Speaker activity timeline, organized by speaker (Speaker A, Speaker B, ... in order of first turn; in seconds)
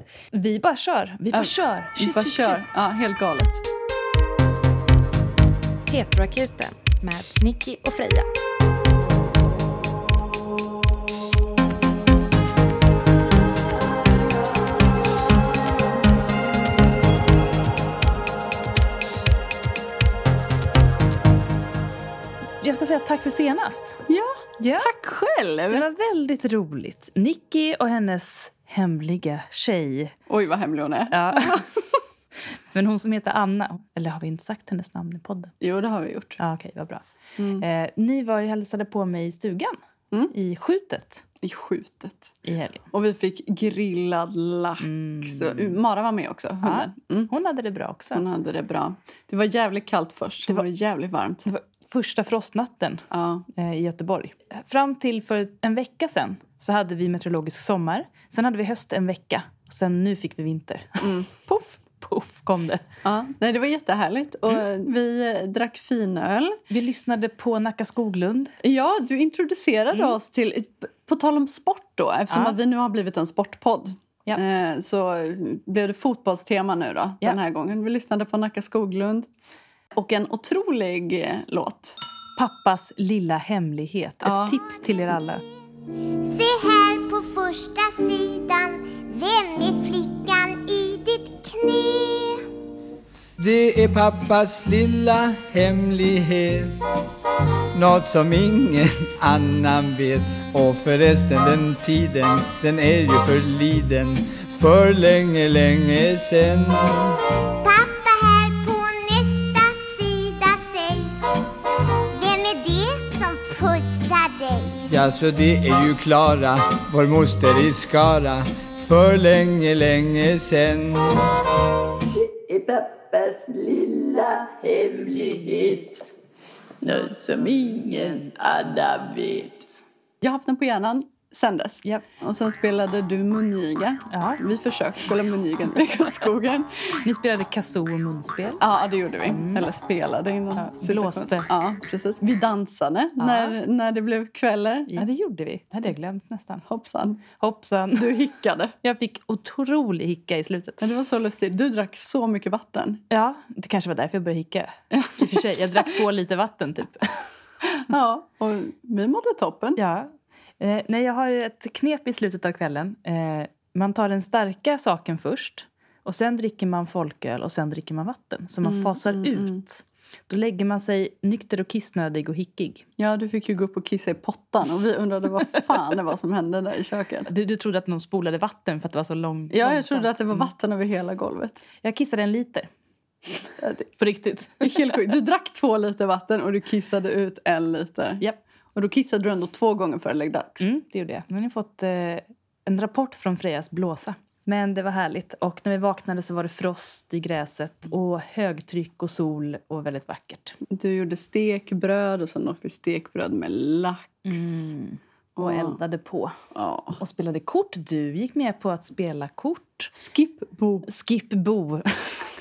Speaker A: 0.3-2.7, 22.6-24.0, 24.6-24.9, 25.7-30.1, 31.1-31.6, 32.7-35.5, 36.4-37.0, 37.6-39.8, 40.3-41.2, 42.5-42.8, 44.8-45.8, 46.6-48.2, 51.5-62.8, 66.7-68.5, 72.3-72.6, 82.4-85.4, 134.1-134.4, 137.0-138.6, 139.2-139.7, 140.5-141.5, 143.2-143.6, 144.9-146.6, 147.4-148.1, 148.8-150.8, 153.1-157.2, 159.8-172.8, 177.3-180.5, 181.8-182.7, 184.0-184.9, 190.6-200.6, 204.2-206.3, 207.0-209.9, 210.8-212.3
Speaker B: 1.3-3.6, 24.1-25.8, 30.3-31.7, 35.6-36.4, 37.4-37.6, 41.4-42.3, 42.9-47.3, 48.1-51.5, 53.1-53.5, 61.0-61.5, 63.0-66.6, 68.6-79.3, 80.0-82.0, 84.2-84.6, 122.1-126.1, 126.8-136.7, 138.6-145.0, 146.7-147.2, 147.9-148.7, 150.8-153.0, 154.9-155.9, 157.7-159.8, 168.6-169.6, 173.0-177.3, 179.5-181.6, 183.6-183.9, 184.6-188.2, 188.8-190.7, 200.7-204.6, 205.3-205.8, 206.5-207.0, 209.9-210.9
Speaker C: 5.9-8.3
Speaker D: 86.2-92.5, 107.6-111.1, 112.2-114.9
Speaker E: 93.4-96.8, 97.8-107.1, 114.9-121.2